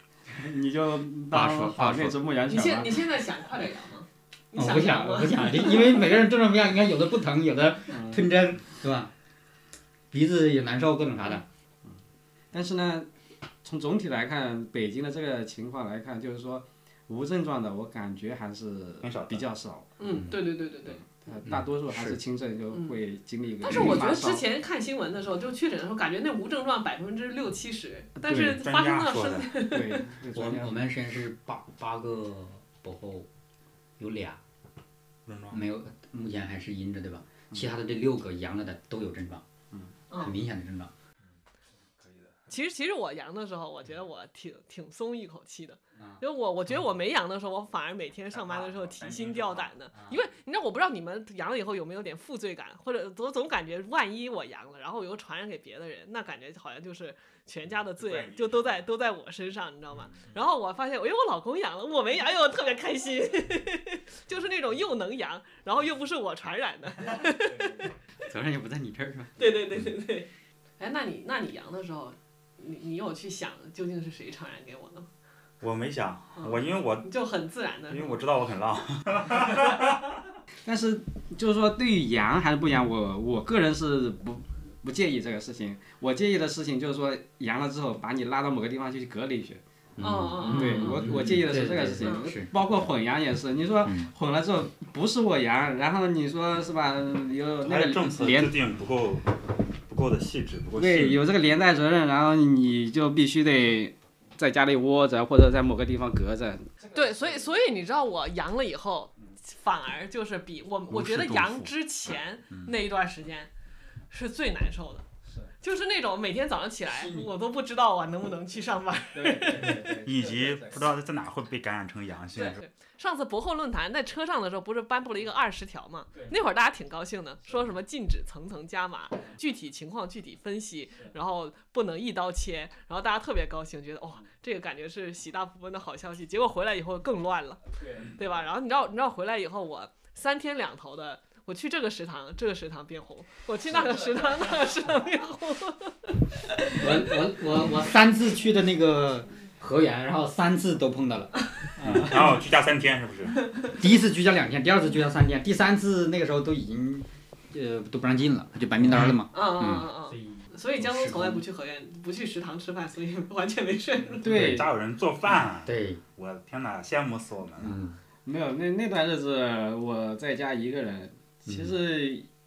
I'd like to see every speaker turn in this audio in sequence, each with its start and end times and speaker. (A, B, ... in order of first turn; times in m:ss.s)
0:00.3-0:03.0 A
0:01.3-0:02.2 B
0:02.5-0:06.0 C
0:04.5-0:09.1 B
0:07.9-0:08.3 A
0:10.1-0:11.5 B
0:12.5-0:13.1 A
0:13.6-0:19.9 A
0:19.0-0:19.4 D
0:20.0-0:21.0 C
0:20.0-0:20.4 B
0:21.0-0:24.4 A
0:21.5-0:22.2 B
0:23.6-0:30.1 C
0:28.3-0:29.6 D
0:29.7-0:30.8 A
0:30.3-0:33.3 B
0:34.0-0:34.4 B
0:35.3-0:35.6 D
0:35.5-0:39.4 B
0:40.2-0:40.9 B
0:42.0-0:42.5 D
0:42.5-1:07.9 C
0:46.0-0:46.2 B
0:48.3-0:49.7 D
0:49.9-0:50.2 B
0:58.0-0:58.8 D
1:08.2-1:09.4 B
1:09.4-1:10.3 C
1:10.8-1:15.1 C
1:15.6-1:17.1 D
1:16.4-1:18.2 C
1:17.9-1:19.9 D
1:20.6-1:29.6 A
1:30.0-1:32.6 B
1:30.0-1:31.2 C
1:30.5-1:38.6 A
1:32.0-1:32.3 C
1:33.8-1:34.1 B
1:37.6-1:41.2 D
1:40.8-1:47.4 A
1:46.9-1:53.5 C
1:50.9-1:51.7 D
1:52.5-1:52.8 D
1:54.1-1:55.0 C
1:55.6-2:00.0 C
1:59.1-2:00.9 A
1:59.8-2:02.6 D
2:02.3-2:27.3 C
2:17.8-2:18.2 A
2:26.7-2:32.1 B
2:31.8-2:32.4 A
2:31.8-2:33.5 D
2:33.6-2:41.4 B
2:39.3-2:44.3 C
2:44.2-2:47.8 D
2:44.2-2:44.7 A
2:45.6-2:46.0 B
2:47.6-2:48.0 B
2:48.2-2:52.3 A